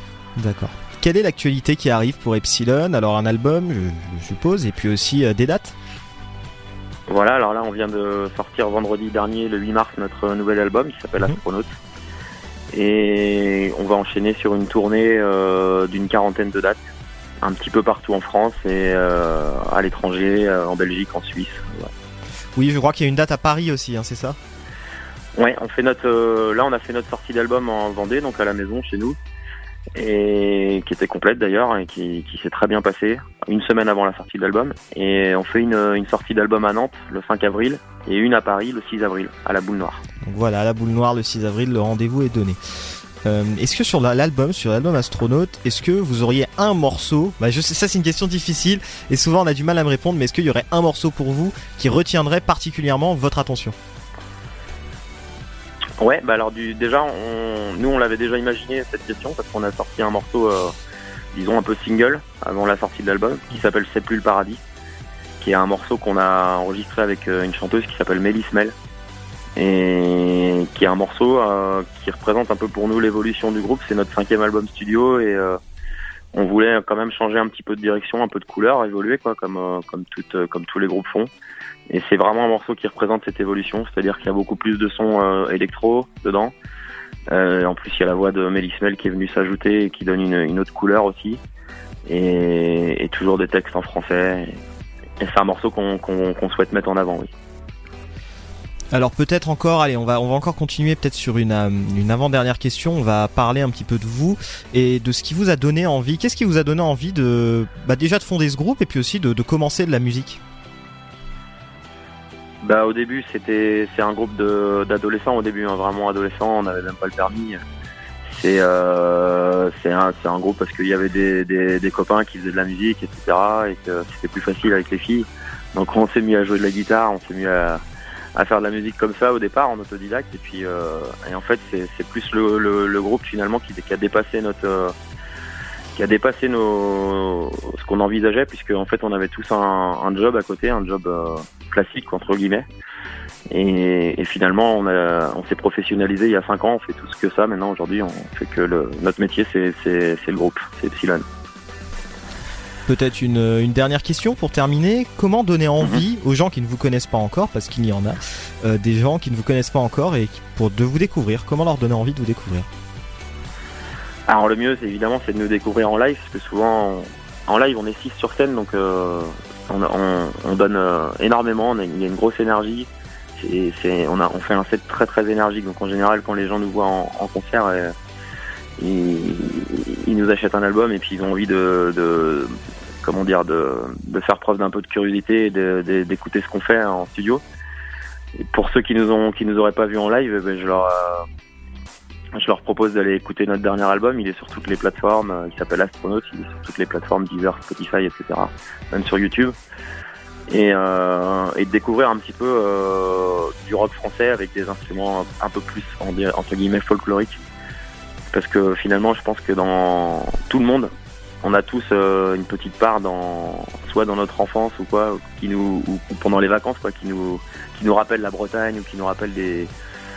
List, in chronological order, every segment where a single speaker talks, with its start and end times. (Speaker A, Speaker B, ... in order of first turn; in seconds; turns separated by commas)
Speaker A: 0.4-5.7, Speaker B: 7.1-11.7, Speaker B: 12.7-16.8, Speaker B: 17.4-21.9, Speaker A: 22.6-24.4, Speaker B: 25.4-29.2, Speaker B: 30.0-40.0, Speaker A: 40.3-42.6, Speaker A: 43.2-53.8, Speaker B: 56.0-60.7, Speaker B: 61.3-64.6, Speaker B: 65.4-68.7, Speaker B: 69.6-75.6, Speaker B: 76.3-81.3, Speaker B: 81.9-86.5, Speaker B: 87.3-91.4, Speaker B: 92.1-94.6, Speaker B: 95.2-97.3, Speaker A: 98.9-110.4, Speaker B: 112.6-117.6, Speaker B: 118.3-127.8, Speaker B: 128.4-134.9, Speaker B: 136.0-142.7, Speaker B: 143.5-151.2, Speaker A: 152.9-162.7, Speaker B: 164.3-177.9, Speaker B: 178.8-187.4, Speaker B: 188.4-191.2, Speaker B: 192.4-199.6, Speaker B: 200.5-207.4, Speaker B: 208.3-210.9, Speaker B: 211.4-219.7